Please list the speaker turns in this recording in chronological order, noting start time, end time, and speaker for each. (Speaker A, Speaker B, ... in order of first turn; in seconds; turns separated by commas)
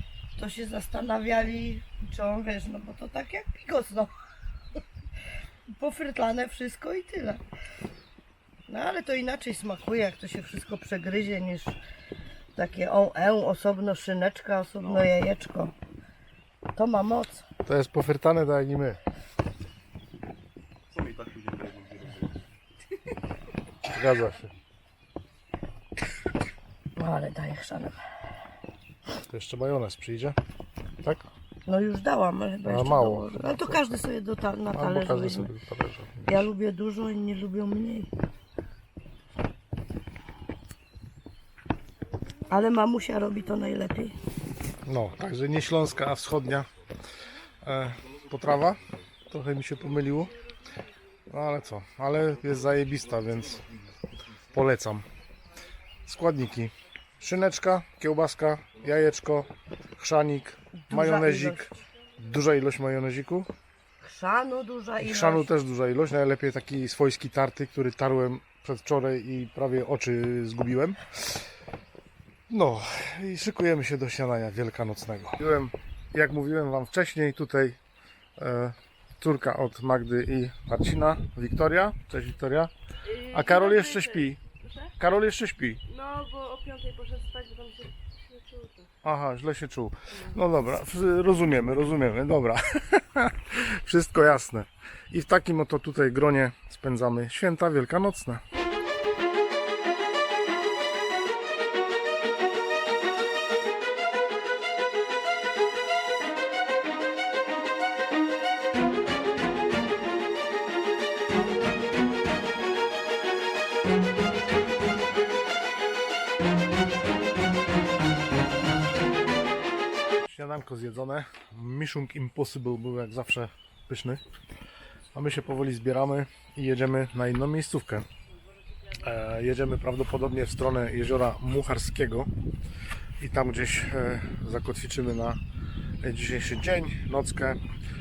Speaker A: 0.4-4.1, Speaker A: 5.7-7.4, Speaker A: 8.7-11.8, Speaker A: 12.6-15.7, Speaker A: 16.8-17.4, Speaker B: 17.6-19.0, Speaker B: 23.9-24.5, Speaker A: 27.0-28.0, Speaker B: 29.2-30.4, Speaker A: 31.7-35.5, Speaker B: 32.7-33.8, Speaker B: 34.7-36.5, Speaker A: 36.3-38.1, Speaker A: 42.5-44.1, Speaker B: 44.9-46.7, Speaker B: 47.6-50.4, Speaker B: 51.3-53.8, Speaker B: 54.5-55.0, Speaker B: 56.0-63.5, Speaker A: 60.9-61.6, Speaker A: 64.0-65.5, Speaker B: 65.0-71.5, Speaker B: 72.5-77.8, Speaker B: 78.4-84.4, Speaker B: 85.0-85.8, Speaker C: 86.0-88.9, Speaker B: 89.0-98.4, Speaker B: 120.1-124.2, Speaker B: 125.1-128.1, Speaker B: 128.9-132.3, Speaker B: 133.2-135.4, Speaker B: 136.0-137.6